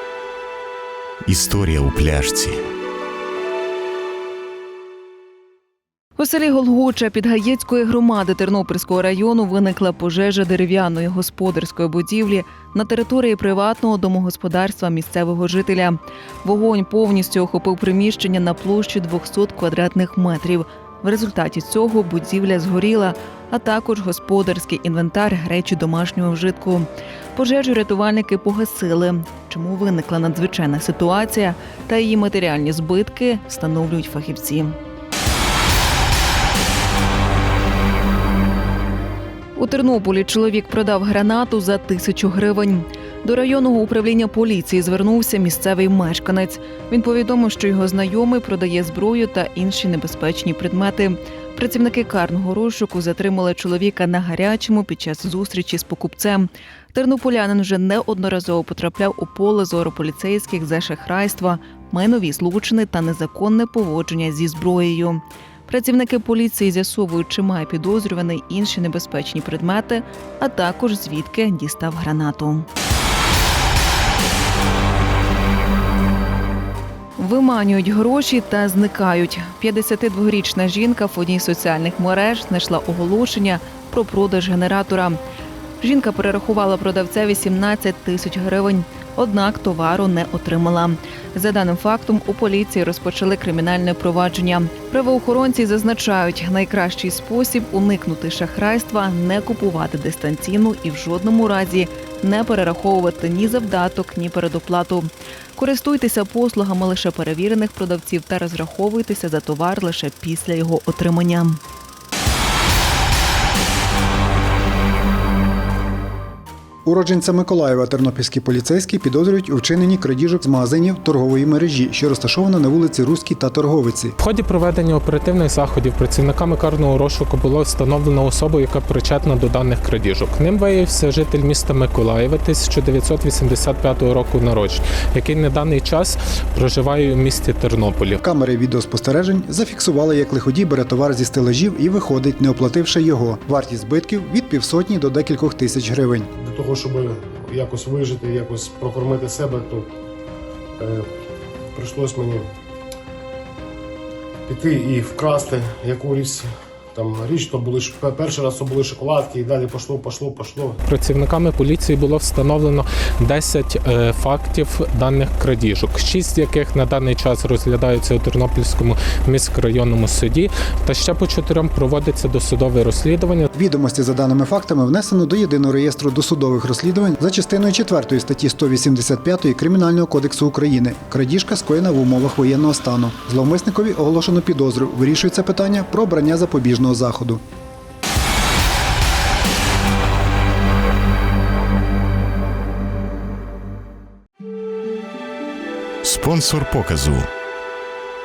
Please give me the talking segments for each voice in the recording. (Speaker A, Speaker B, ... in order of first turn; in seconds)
Speaker A: 1.2-2.6, 196.0-197.2
Speaker B: 6.2-34.8, 39.5-72.7, 77.2-85.2, 85.8-111.6
Speaker C: 116.8-124.2, 138.2-146.3, 173.5-187.4
Speaker D: 124.2-138.2, 160.8-173.5
Speaker E: 146.4-149.9, 150.8-151.1, 151.7-152.4, 154.5-160.8